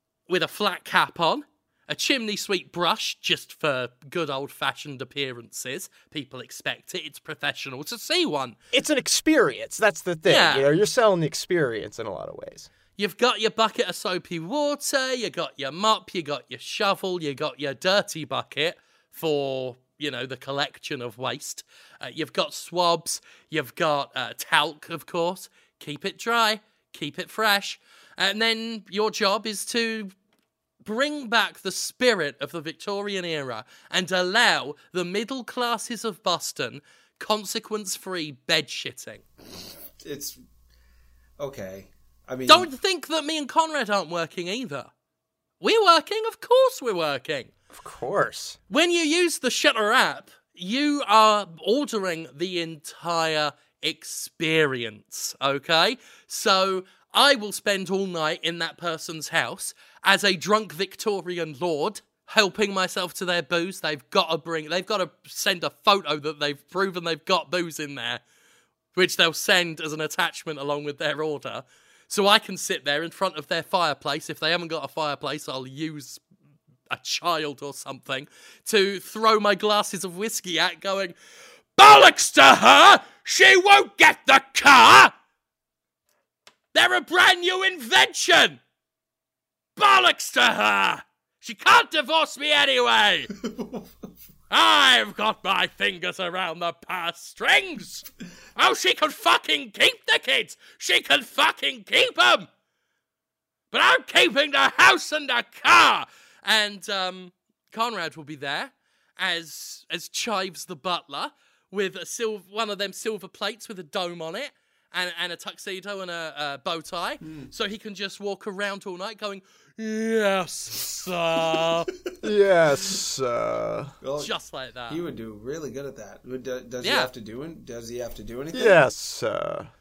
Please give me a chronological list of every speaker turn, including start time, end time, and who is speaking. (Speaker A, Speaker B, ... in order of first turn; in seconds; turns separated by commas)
Speaker A: 0.3-8.6, Speaker B: 8.7-12.7, Speaker A: 10.3-10.7, Speaker A: 12.9-30.1, Speaker A: 30.8-39.2, Speaker C: 40.0-40.4, Speaker C: 41.4-42.7, Speaker A: 42.5-44.9, Speaker A: 45.6-47.5, Speaker B: 47.7-48.6, Speaker A: 48.7-68.2, Speaker A: 68.9-76.2, Speaker A: 76.9-81.1, Speaker A: 81.8-85.1, Speaker A: 86.7-88.6, Speaker A: 89.8-93.3, Speaker C: 93.4-93.8, Speaker A: 94.5-102.5, Speaker A: 103.7-121.9, Speaker C: 117.2-117.5, Speaker B: 122.2-123.9, Speaker C: 124.0-124.3, Speaker A: 124.2-125.0, Speaker C: 124.9-128.8, Speaker A: 126.8-127.1, Speaker B: 128.5-129.7